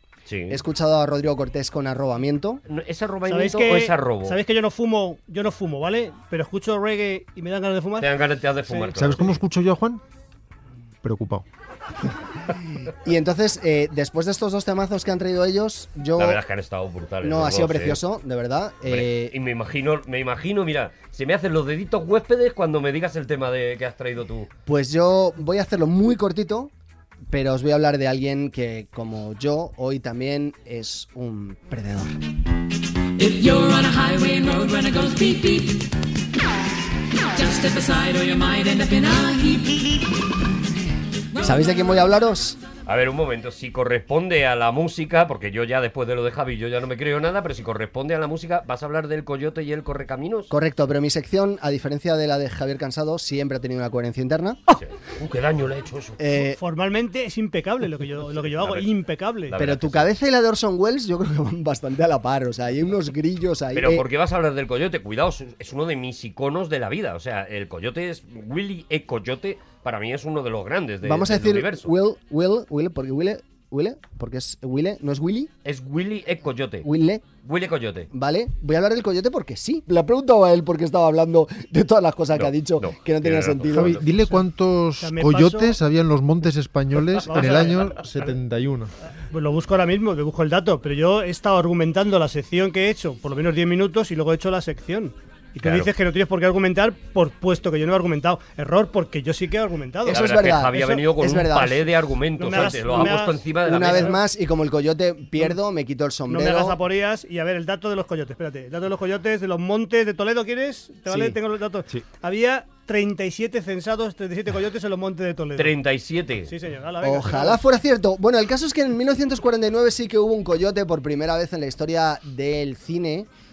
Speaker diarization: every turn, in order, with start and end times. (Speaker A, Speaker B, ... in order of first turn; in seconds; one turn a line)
Speaker A: 0.3-0.6
Speaker B: 0.5-2.6
Speaker A: 2.7-4.4
Speaker C: 3.3-8.1
Speaker A: 8.0-9.4
Speaker D: 8.9-10.0
Speaker D: 11.0-11.4
Speaker B: 13.0-16.4
Speaker A: 16.2-18.0
Speaker B: 17.2-19.3
Speaker A: 18.8-24.5
Speaker B: 24.6-26.7
Speaker B: 27.3-32.2
Speaker E: 33.2-35.9
Speaker E: 37.3-40.1
Speaker B: 41.4-42.6
Speaker A: 42.9-50.5
Speaker B: 50.5-54.7
Speaker A: 54.7-56.2
Speaker B: 56.2-56.6
Speaker C: 56.5-59.5
Speaker A: 58.5-58.9
Speaker A: 59.5-60.1
Speaker B: 59.6-64.0
Speaker A: 63.7-71.9
Speaker B: 71.0-75.5
Speaker A: 75.6-76.9
Speaker B: 76.8-77.2
Speaker A: 77.4-78.1
Speaker B: 78.1-84.0
Speaker A: 82.3-84.0
Speaker D: 83.7-88.9
Speaker C: 85.0-85.8
Speaker C: 87.2-88.0
Speaker C: 89.3-100.2
Speaker A: 95.6-95.9
Speaker B: 100.0-101.9
Speaker A: 100.1-104.2
Speaker C: 102.4-104.2
Speaker B: 102.5-106.8
Speaker C: 106.3-115.8
Speaker B: 111.1-111.4
Speaker A: 115.5-116.5
Speaker C: 116.5-117.6
Speaker B: 117.0-123.3